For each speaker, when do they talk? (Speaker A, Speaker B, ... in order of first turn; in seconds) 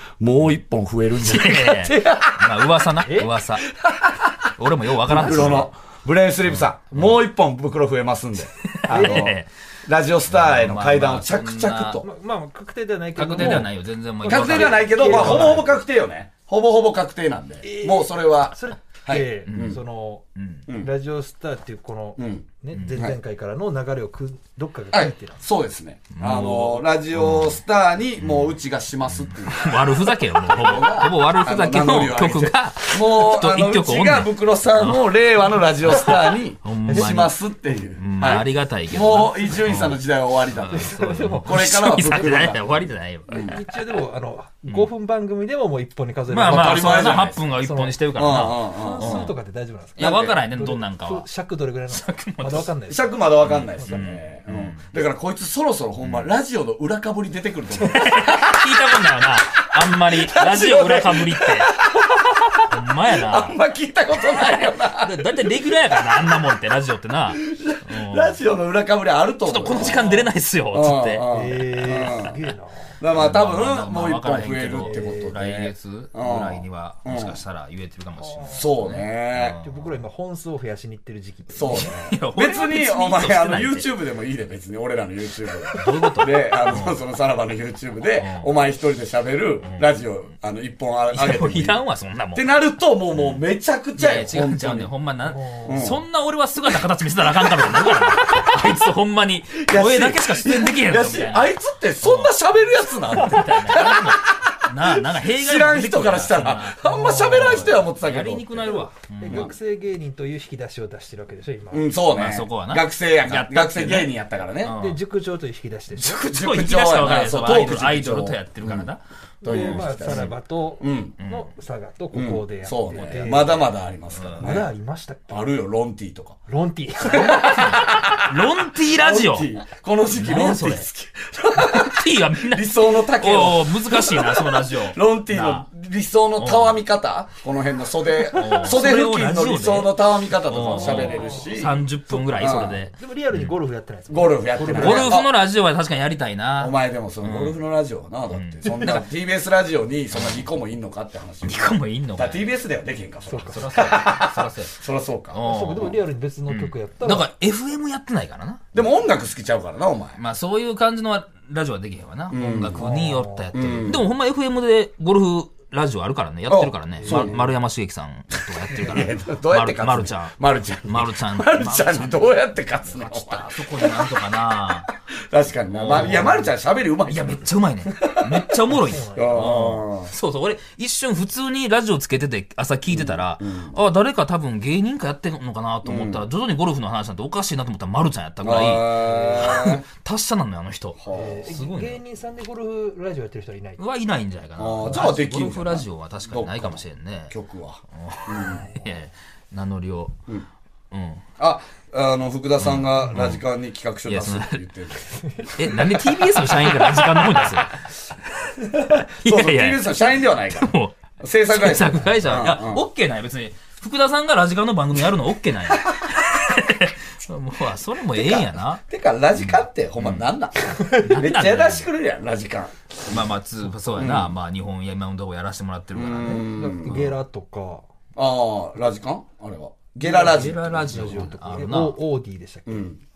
Speaker A: 0.2-2.9, 3.6-4.5, 5.1-12.1, 13.4-13.7, 14.2-19.8, 22.2-23.2, 24.9-43.6, 46.4-47.4, 48.1-49.3, 50.0-50.4, 52.9-66.4, 67.4-72.4, 73.0-77.4, 78.5-79.6, 81.5-91.8, 92.3-94.9, 95.7-96.0, 97.5-98.5, 99.6-109.5, 111.7-114.7, 116.1-118.9, 119.4-121.2, 122.1-124.7, 125.3-126.4, 127.0-142.9, 144.1-145.3, 146.6-155.9, 158.7-160.2, 162.3-163.0, 163.5-164.1, 166.5-167.5, 168.7-174.1, 175.3-178.6, 179.2-180.1, 182.9-183.8, 185.8-186.3, 188.4-189.8, 191.0-191.5, 194.6-198.7, 201.4-207.7, 208.6-212.8, 218.1-223.2, 224.0-224.3, 225.9-227.1, 228.2-231.2, 232.7-233.0
Speaker B: 1.2-3.7, 4.5-5.7, 6.5-7.2, 8.6-9.5, 10.3-12.0, 13.2-15.7, 19.5-19.8, 20.4-20.6, 22.7-23.1, 26.1-27.6, 28.2-28.6, 29.2-35.1, 35.8-37.3, 38.0-40.0, 40.5-43.6, 46.3-49.3, 50.0-51.3, 51.9-52.7, 53.4-54.8, 56.0-56.3, 57.8-61.8, 62.6-63.6, 64.3-68.4, 69.5-71.2, 73.1-79.9, 81.7-83.9, 85.7-87.0, 88.2-88.5, 91.1-92.5, 93.1-93.4, 94.0-102.3, 103.1-109.5, 112.1-115.0, 116.0-120.3, 121.2-121.5, 122.9-124.6, 127.1-129.5, 130.1-130.9, 131.6-135.7, 136.4-136.8, 138.2-143.6, 144.7-147.6, 148.3-149.0, 150.1-150.5, 151.4-152.5, 153.4-154.8, 155.3-158.7, 160.2-174.9, 175.7-176.5, 177.1-192.0, 193.8-197.3, 197.9-200.2, 200.9-201.2, 202.6-203.4, 204.1-204.6, 205.5-207.8, 209.0-211.0, 211.5-218.8, 219.4-220.2, 220.9-221.9, 223.1-227.2, 230.1-232.0
Speaker C: 3.0-3.3, 8.9-9.3, 12.0-13.7, 14.2-15.8, 17.6-25.4, 36.9-37.1, 40.7-42.5, 43.4-54.1, 71.3-73.0, 74.8-75.3, 78.2-78.7, 79.6-82.0, 95.3-95.9, 106.8-107.9, 109.2-111.9, 114.7-116.2, 119.4-123.6, 124.4-125.5, 126.5-128.0, 140.7-141.5, 142.9-145.2, 153.2-154.0, 155.4-157.3, 162.8-163.6, 167.0-167.4, 178.7-179.6, 188.9-189.5, 191.1-193.8, 198.5-199.0, 226.5-227.9, 230.0-232.9